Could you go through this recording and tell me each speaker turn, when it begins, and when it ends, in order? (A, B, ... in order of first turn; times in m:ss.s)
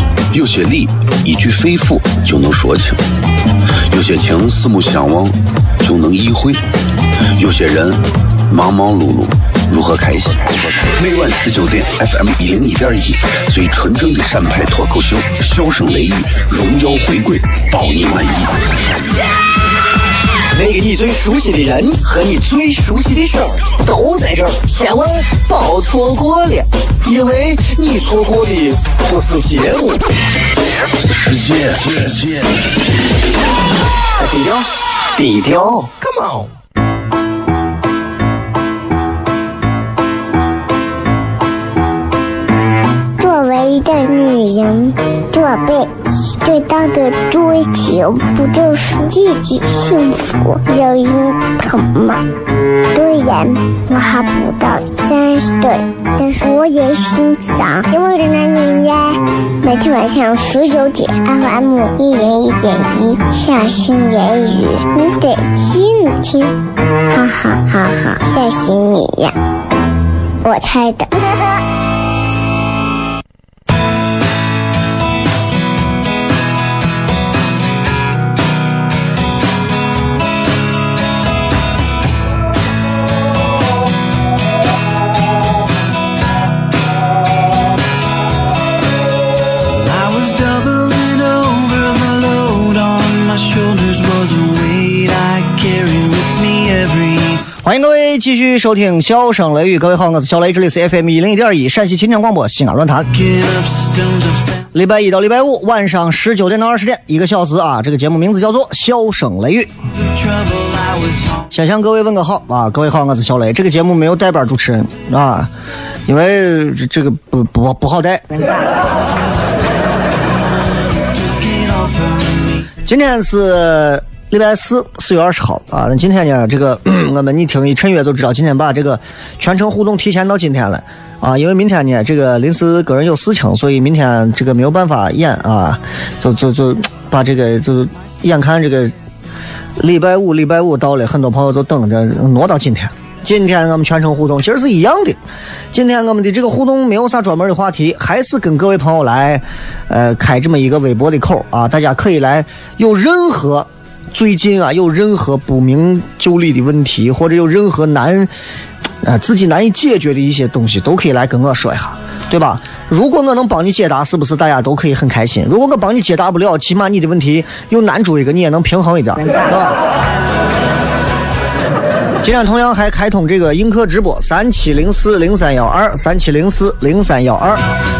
0:00.3-0:03.0 A
0:03.9-0:06.6 A
0:07.3-0:18.6 A
0:20.5-0:30.0 B
0:30.9-0:32.6 A
0:34.2-0:35.9 B
0:43.2-0:52.2 C
0:52.9-1:09.4 C
1:10.4-1:11.5 C
1:29.6-1:37.4 D
1:37.6-1:43.1 E
1:43.1-1:44.6 D
1:44.7-1:49.7 E
1:50.1-1:51.4 D
1:51.5-1:55.5 E
1:56.0-1:58.3 E
1:58.8-2:02.6 D
2:02.8-2:18.9 E
2:19.8-2:25.2 E
2:25.7-2:38.3 E
2:39.0-2:49.8 E
2:52.2-2:57.6 E